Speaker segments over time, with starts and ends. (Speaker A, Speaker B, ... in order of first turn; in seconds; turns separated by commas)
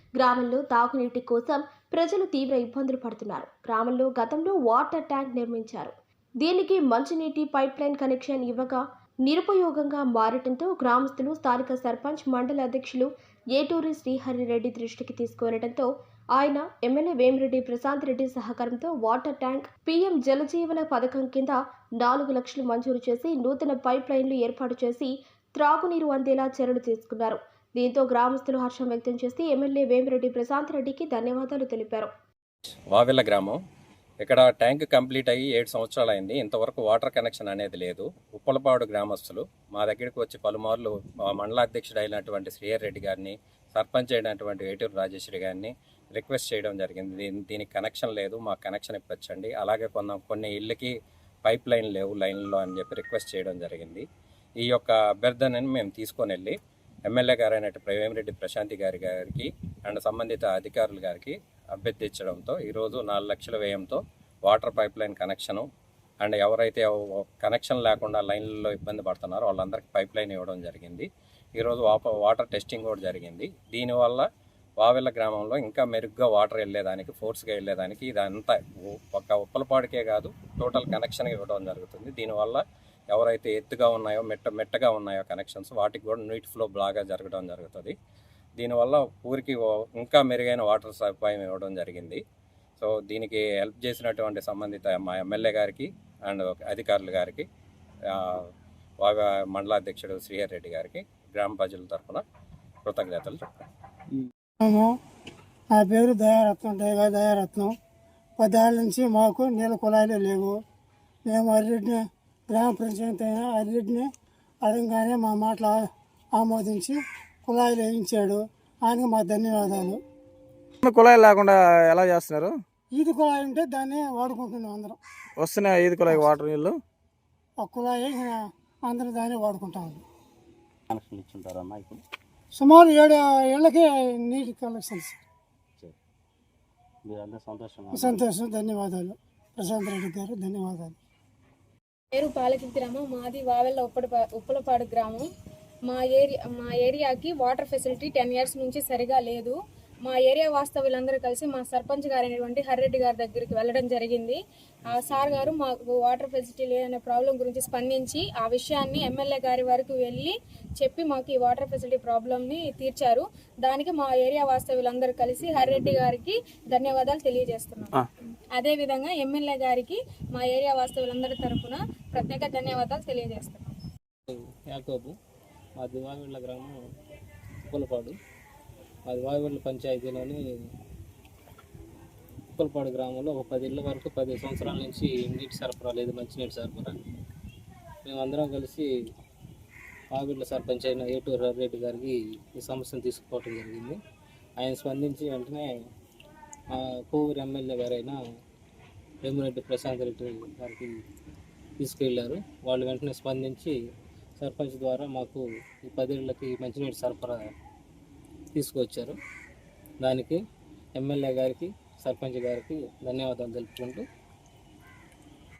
Speaker A: 0.2-32.1, Speaker B: 32.9-33.6, Speaker B: 34.2-50.9, Speaker B: 51.4-54.0, Speaker B: 54.6-56.5, Speaker B: 57.1-65.7, Speaker B: 66.2-74.2, Speaker B: 74.8-87.9, Speaker B: 88.6-92.2, Speaker B: 92.8-97.5, Speaker B: 98.1-98.5, Speaker B: 99.0-102.2, Speaker B: 102.8-103.4, Speaker C: 104.6-104.9, Speaker C: 105.7-107.7, Speaker C: 108.4-110.5, Speaker C: 111.3-114.1, Speaker C: 114.6-115.7, Speaker C: 116.3-120.0, Speaker D: 120.8-122.6, Speaker C: 123.0-125.0, Speaker D: 125.4-126.8, Speaker C: 126.0-126.3, Speaker C: 127.6-130.0, Speaker E: 130.9-132.0, Speaker C: 132.6-135.1, Speaker E: 137.1-138.2, Speaker C: 137.9-140.9, Speaker F: 142.1-145.3, Speaker F: 145.9-168.0, Speaker G: 154.9-155.4, Speaker G: 165.4-166.0, Speaker F: 168.5-173.7, Speaker G: 174.3-175.1, Speaker G: 175.8-176.7, Speaker G: 177.7-178.1, Speaker G: 179.1-180.4, Speaker G: 182.6-187.0, Speaker G: 188.0-188.8, Speaker G: 190.1-194.0, Speaker G: 194.6-195.7, Speaker G: 196.7-198.2, Speaker G: 199.2-200.9, Speaker G: 201.8-203.7, Speaker G: 204.4-207.5, Speaker G: 208.5-209.2, Speaker G: 210.0-210.4, Speaker G: 210.9-214.0